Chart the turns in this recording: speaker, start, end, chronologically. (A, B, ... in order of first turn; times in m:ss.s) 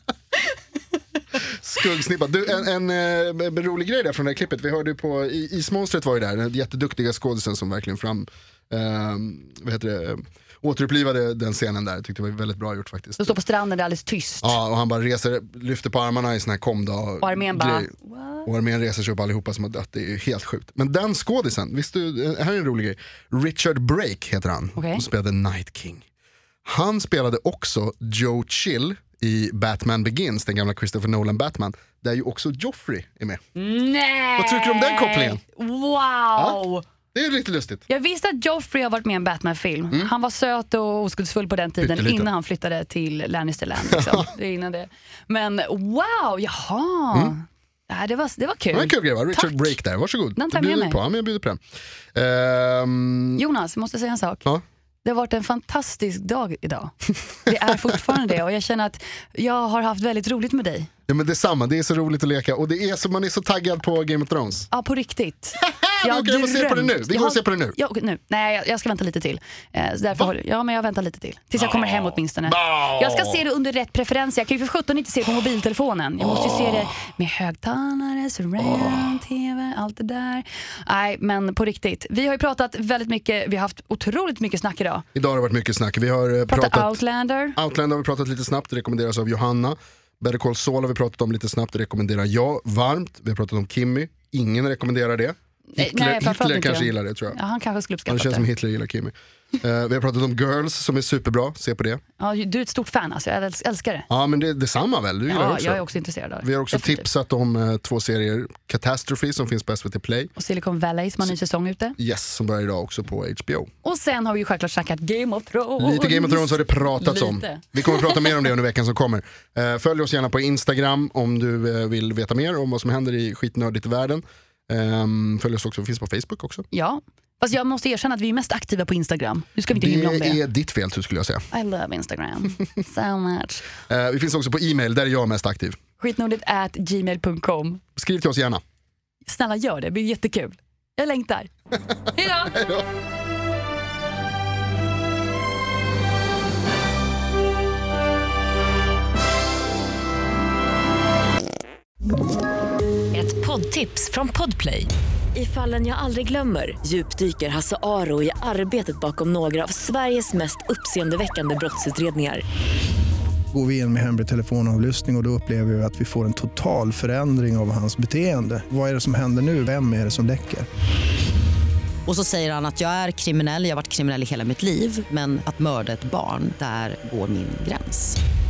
0:01.4-0:13.4 A
0:13.2-0:14.6 B
0:14.4-0:17.9 A
0:17.2-0:18.5 B
0:18.4-0:26.0 A
0:24.8-0:25.0 B
0:26.6-0:33.4 A
0:33.6-0:36.8 B
0:34.4-0:35.4 A
0:36.4-0:36.6 A
0:37.1-0:37.8 A
0:37.9-0:49.7 B
0:41.8-0:42.3 A
0:43.9-0:44.3 A
0:48.7-0:51.6 A
0:50.4-0:51.0 B
0:52.1-0:53.4 A
0:53.4-0:54.4 B
0:55.0-1:00.9 B
0:57.5-0:58.0 A
1:01.1-1:04.7 A
1:04.7-1:25.0 B
1:05.6-1:07.8 A
1:11.6-1:13.4 A
1:16.2-1:16.9 A
1:18.6-1:19.0 A
1:25.2-1:27.0 A
1:26.5-1:27.6 B
1:27.6-1:37.4 A
1:35.8-1:38.5 B
1:38.1-1:42.0 A
1:42.2-1:44.1 B
1:44.1-1:45.8 A
1:45.3-1:47.0 B
1:46.4-1:50.3 A
1:50.4-1:52.0 B
1:52.0-1:53.7 A
1:53.8-1:58.3 B
1:55.8-2:06.7 A
2:06.7-2:10.4 B
2:09.7-2:11.5 A
2:11.5-2:13.7 B
2:13.9-2:15.8 A
2:16.0-2:17.8 B
2:18.0-2:18.6 A
2:19.3-2:21.5 B
2:22.1-2:22.6 B
2:22.5-2:22.9 A
2:33.1-2:42.4 C
2:43.5-2:50.7 D
2:52.1-2:58.2 E